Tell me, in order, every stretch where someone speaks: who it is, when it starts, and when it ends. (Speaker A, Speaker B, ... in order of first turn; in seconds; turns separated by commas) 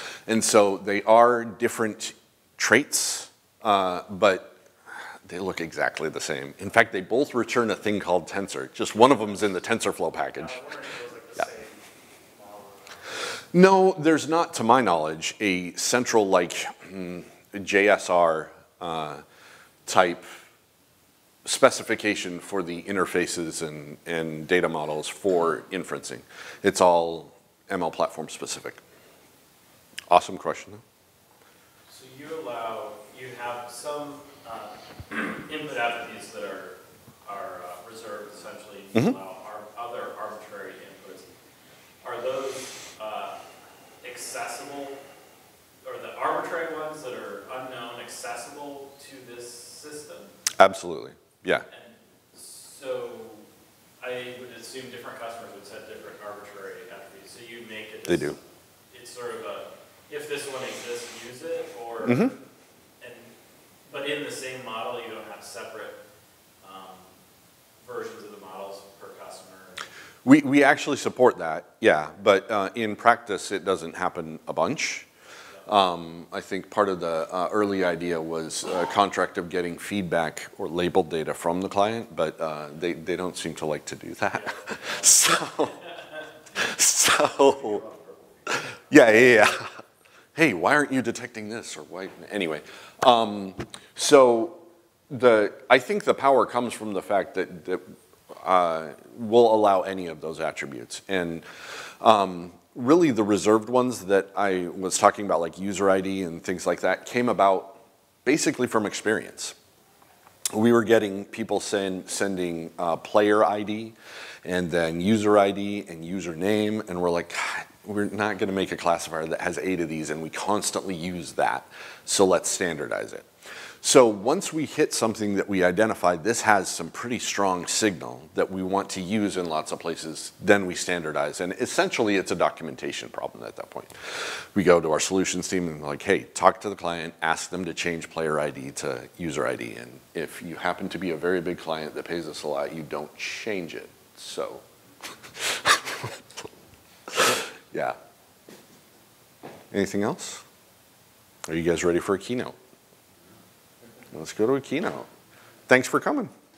Speaker A: 0.3-4.6, Speaker A: 5.3-10.6, Speaker B: 10.3-13.2, Speaker A: 13.5-19.2, Speaker A: 19.9-20.4, Speaker A: 21.4-28.8, Speaker A: 30.1-30.8, Speaker C: 31.9-41.3, Speaker C: 42.0-43.4, Speaker C: 44.0-45.0, Speaker C: 45.8-50.3, Speaker A: 50.6-51.7, Speaker C: 51.7-53.5, Speaker C: 54.0-58.4, Speaker A: 58.1-58.4, Speaker C: 58.9-62.4, Speaker A: 62.0-62.3, Speaker C: 63.0-63.3, Speaker C: 63.8-66.0, Speaker C: 66.6-67.1, Speaker C: 67.8-69.8, Speaker A: 70.2-75.1, Speaker A: 75.6-85.9, Speaker A: 86.5-87.9, Speaker A: 88.5-89.8, Speaker A: 90.3-109.5, Speaker A: 110.5-123.3, Speaker A: 123.8-144.6, Speaker A: 145.3-146.1, Speaker A: 147.1-148.0, Speaker A: 149.7-150.4, Speaker A: 151.5-152.5, Speaker A: 154.1-155.1, Speaker A: 155.7-156.3